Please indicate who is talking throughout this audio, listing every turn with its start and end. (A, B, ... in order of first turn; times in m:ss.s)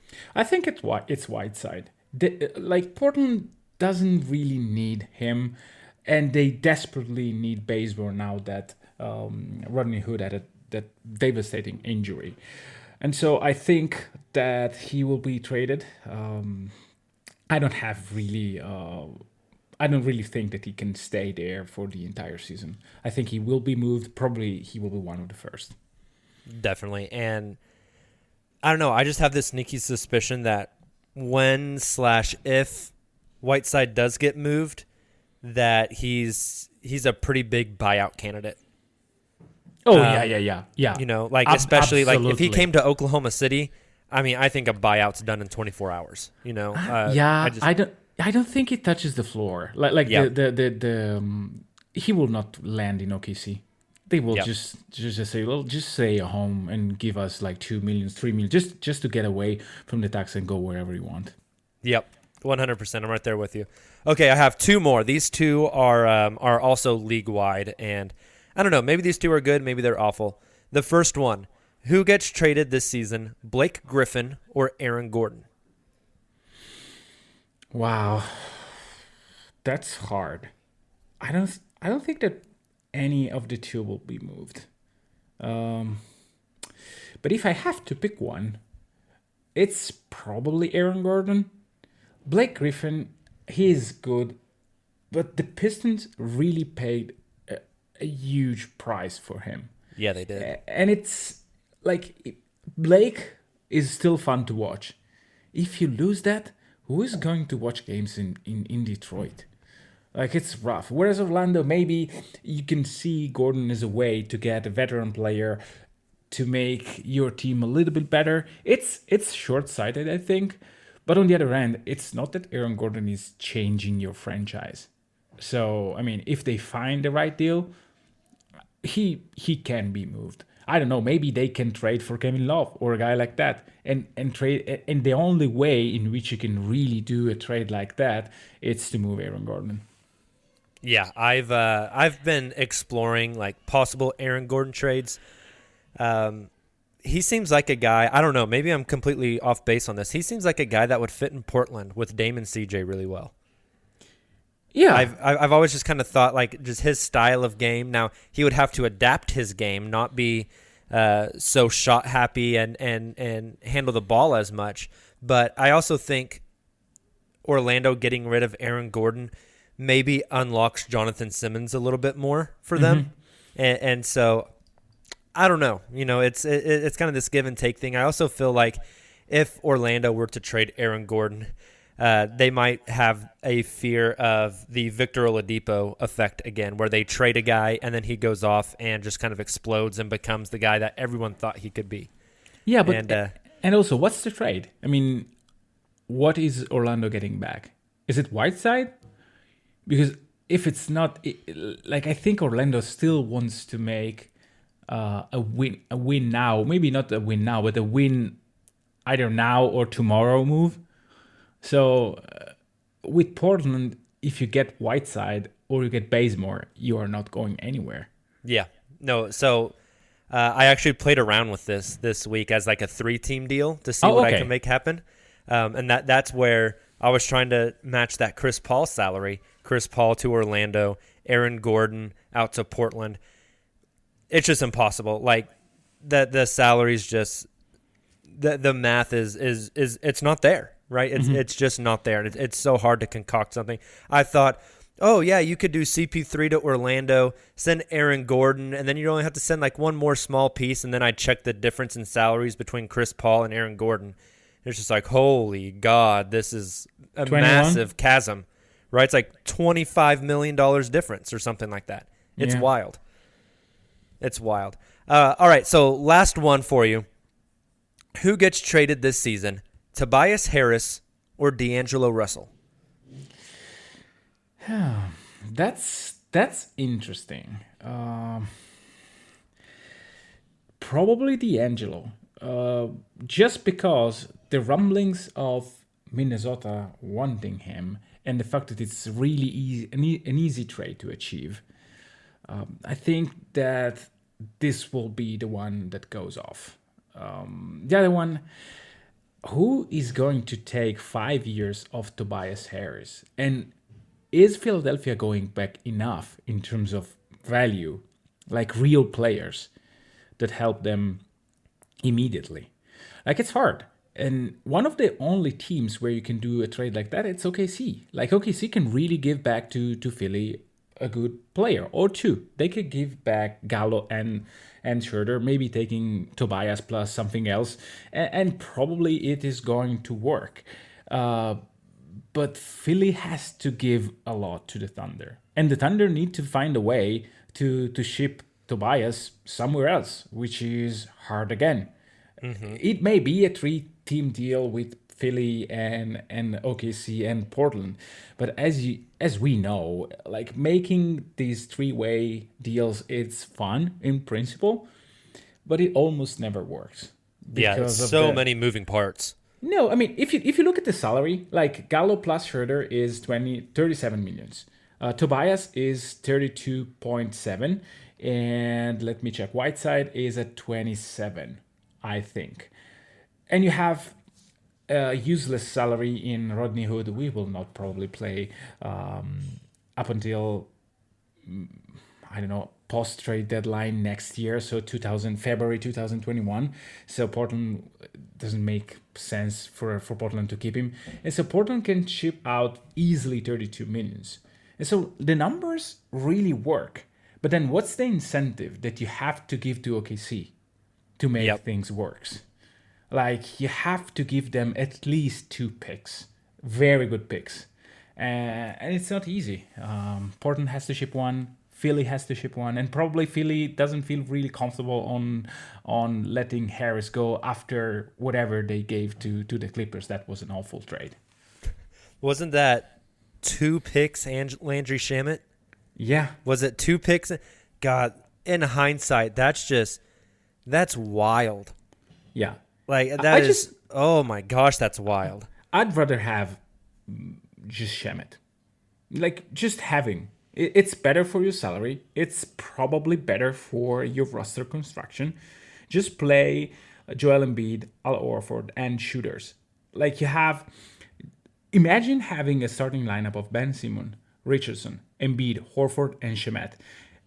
0:00.3-0:12.4 A
0:13.0-0:16.7 A
0:17.5-0:19.2 A
0:19.8-0:25.8 A
0:26.5-0:27.6 B
0:28.6-0:34.8 B
0:35.4-0:38.6 B
0:39.8-0:42.7 A
0:39.9-0:40.3 B
0:40.9-0:47.7 B
0:46.7-1:01.3 A
1:01.8-1:15.4 B
1:17.7-1:18.8 A
1:19.6-1:20.5 A
1:21.2-1:24.7 A
1:25.4-1:26.0 A
1:27.2-1:28.6 A
1:29.5-1:31.5 A
1:32.2-1:34.4 A
1:35.1-1:39.7 A
1:40.0-1:40.5 B
1:40.4-1:45.0 A
1:45.5-1:49.5 A
1:50.1-1:55.6 A
1:56.3-2:04.9 A
2:05.4-2:07.7 A
2:08.8-2:19.8 A
2:20.8-2:25.2 B
2:26.0-2:26.5 B
2:27.0-2:33.3 B
2:34.7-2:35.1 A
2:34.9-2:46.4 B
2:47.4-2:54.5 B
2:52.7-2:53.1 A
2:55.3-3:12.1 B
3:12.6-3:15.3 A
3:12.8-3:13.3 B
3:16.1-3:18.9 A
3:19.8-3:24.3 A
3:24.9-3:28.4 A
3:29.0-3:30.8 A
3:31.6-3:32.5 A
3:33.0-3:38.1 A
3:38.4-3:39.7 B
3:40.3-3:53.2 B
3:44.0-3:44.5 A
3:54.3-3:55.5 B
3:56.0-3:57.5 B
3:58.3-4:23.0 B
4:17.2-4:17.8 A
4:22.4-4:22.7 A
4:24.2-4:27.0 B
4:28.2-4:32.5 B
4:34.6-4:38.5 A
4:40.8-4:51.6 A
4:52.4-4:58.4 A
4:59.4-5:03.7 A
5:04.3-5:09.7 A
5:10.4-5:11.2 A
5:12.0-5:12.7 A
5:13.2-5:31.6 A
5:32.3-5:41.9 A
5:42.4-5:42.8 B
5:42.6-5:54.9 A
5:55.6-5:58.4 A
5:57.5-5:59.3 B
5:59.6-6:12.7 A
6:13.5-6:14.2 A
6:14.9-6:20.7 A
6:21.4-6:40.5 A
6:41.2-6:42.4 A
6:43.1-7:01.2 A
7:02.2-7:02.9 B
7:03.4-7:05.4 B
7:06.0-7:06.4 A
7:06.4-7:10.0 B
7:10.6-7:11.7 B
7:12.9-7:15.5 B
7:13.2-7:13.7 A
7:15.7-7:18.4 A
7:19.1-7:25.4 A
7:25.9-7:30.7 A
7:31.7-7:36.8 A